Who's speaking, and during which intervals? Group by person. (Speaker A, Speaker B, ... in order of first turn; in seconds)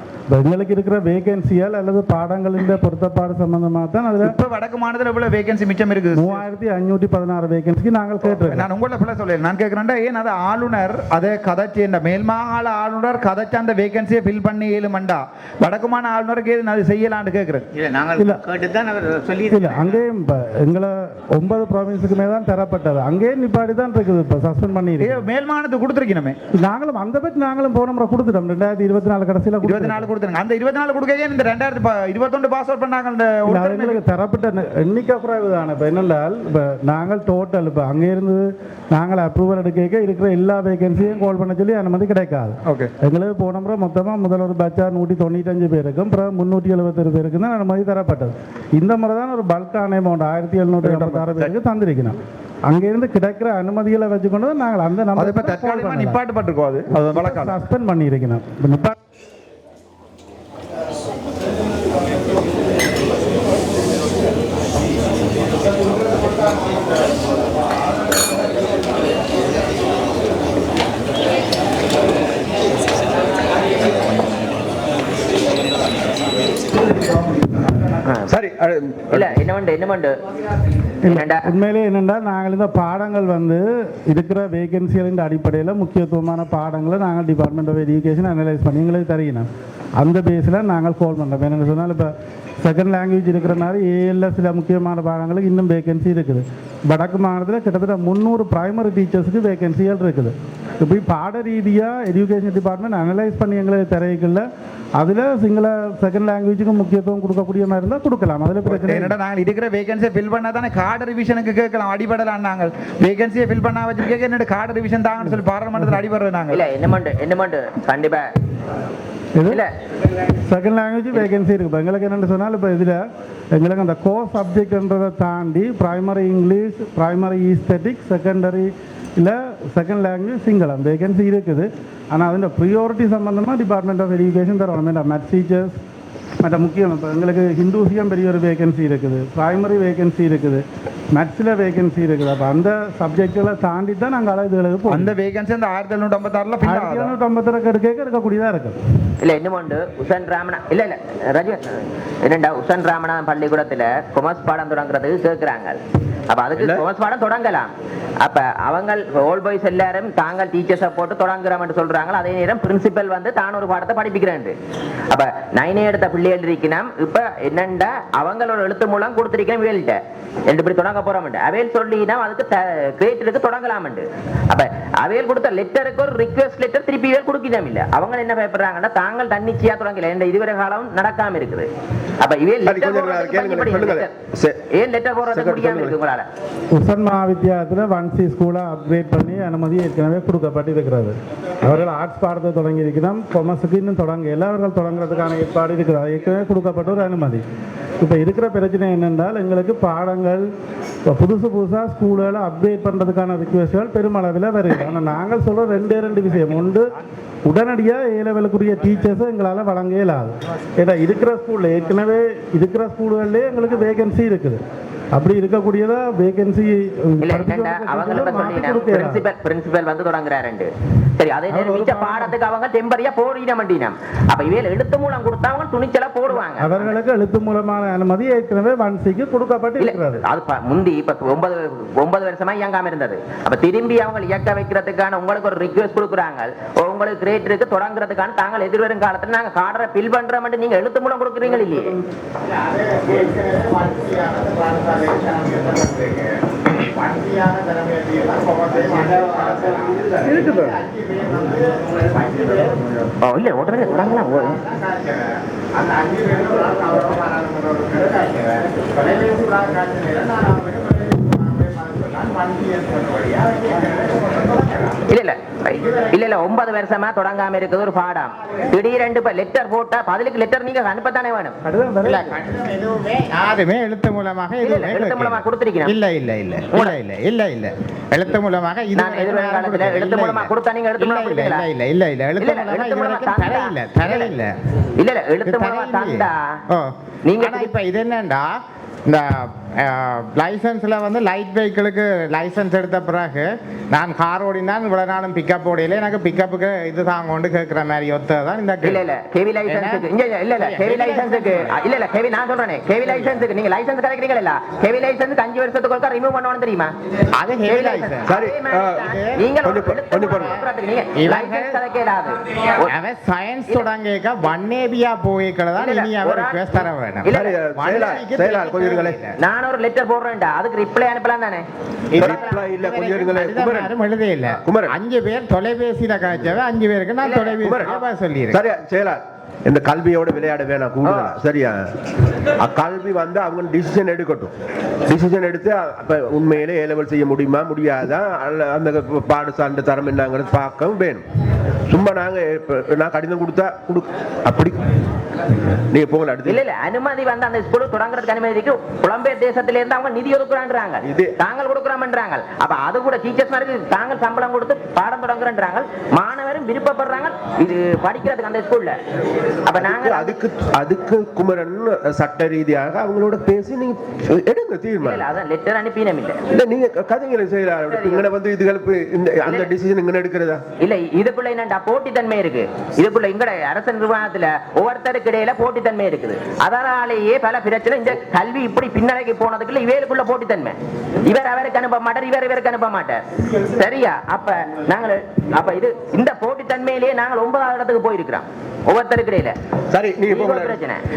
Speaker A: 0.3-4.3, 6.1-8.7, 18.1-18.5, 19.4-25.2, 26.5-30.1, 33.5-56.2, 57.0-58.9, 81.0-104.4, 105.0-109.2, 115.2-116.0, 119.3-119.6, 120.4-123.0, 123.5-135.8, 136.4-145.1, 146.6-148.8, 186.7-197.4, 198.0-200.5, 201.1-206.9, 207.4-214.6, 215.1-219.2, 221.5-222.3, 226.3-230.2, 271.6-272.4
Speaker B: 4.2-6.4, 8.4-17.6, 25.0-26.4, 29.6-34.0, 42.6-42.9, 50.8-51.2, 55.1-57.5, 108.6-116.6, 144.9-147.2
Speaker C: 78.3-79.4, 156.6-156.8, 182.6-184.6, 185.2-186.0, 308.3-310.6, 317.3-319.2, 322.1-324.0, 324.6-324.9, 326.3-326.6, 327.6-331.8, 332.6-334.5, 335.1-341.2, 341.9-344.8, 345.9-346.6, 351.0-351.3, 359.7-365.2, 366.5-370.6, 389.9-390.8
Speaker D: 79.1-80.1, 81.0-81.5, 116.5-118.3, 119.5-119.7, 149.2-155.8, 156.3-164.5, 165.1-181.7, 182.2-184.1, 184.7-186.3, 217.2-226.9, 229.8-241.9, 253.2-254.6, 265.1-271.6, 274.6-276.0, 278.9-281.6, 282.4-284.3, 285.0-286.4, 287.3-287.7, 298.8-306.9, 307.6-312.9, 315.8-317.6, 319.4-321.6, 327.2-327.6, 346.4-358.9, 359.6-360.4, 365.0-366.4, 367.8-368.3, 369.4-369.7, 370.8-389.5, 390.3-391.0
Speaker E: 242.4-253.1, 253.6-265.0, 265.8-266.2, 272.0-284.5, 285.4-299.0, 299.6-301.7, 307.3-308.3, 309.0-309.6, 311.1-311.8, 312.8-319.4, 322.1-328.6